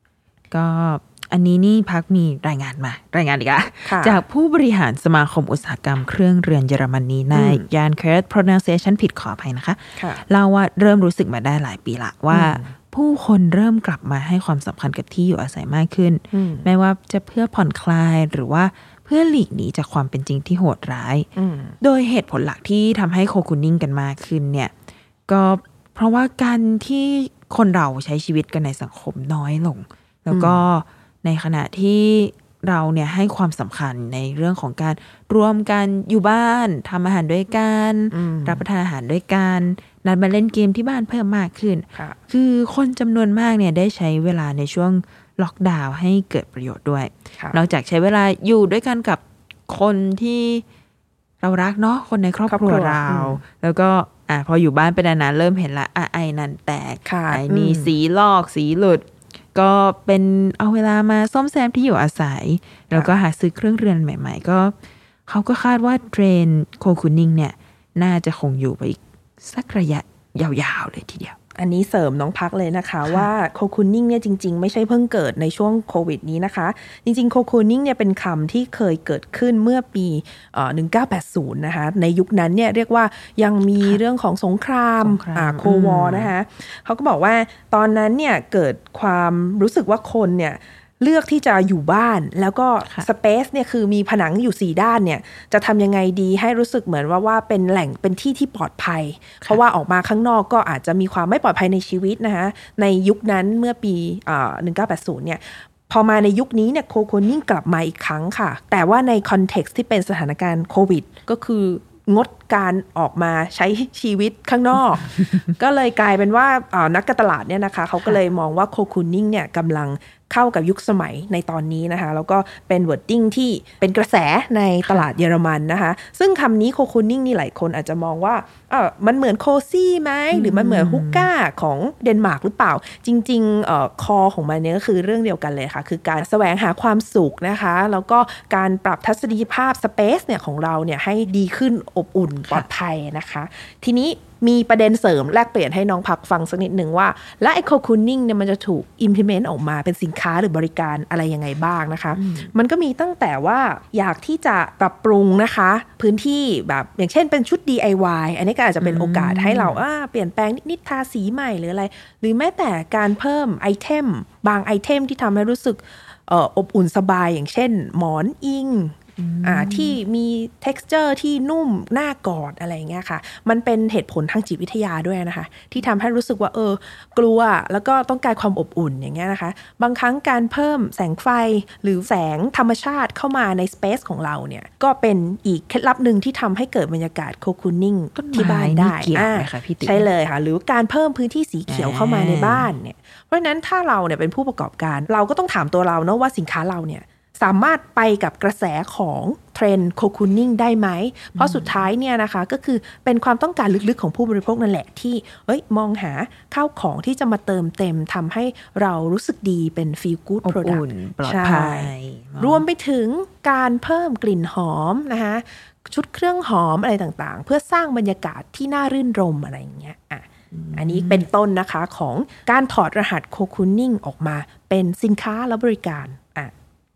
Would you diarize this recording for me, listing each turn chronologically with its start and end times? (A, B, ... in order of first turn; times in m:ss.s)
0:00.5-0:21.3 A
0:03.8-0:04.2 B
0:07.3-0:07.6 B
0:10.0-0:10.2 B
0:12.3-0:12.7 B
0:16.3-0:16.7 B
0:21.4-0:21.8 B
0:21.8-0:24.7 A
0:25.3-0:50.6 A
0:30.3-0:30.6 B
0:38.1-0:38.6 B
0:51.4-1:04.7 A
0:52.5-0:53.4 B
0:57.0-0:57.9 B
1:05.3-1:11.4 A
1:11.6-3:46.5 B
1:25.0-1:26.3 A
2:10.3-2:11.3 A
2:32.2-2:32.5 A
2:38.8-2:39.8 A
2:49.2-2:50.0 A
3:08.2-3:10.1 A
3:11.7-3:12.7 A
3:21.4-3:21.9 A
3:30.4-3:32.6 A
3:40.5-3:41.3 A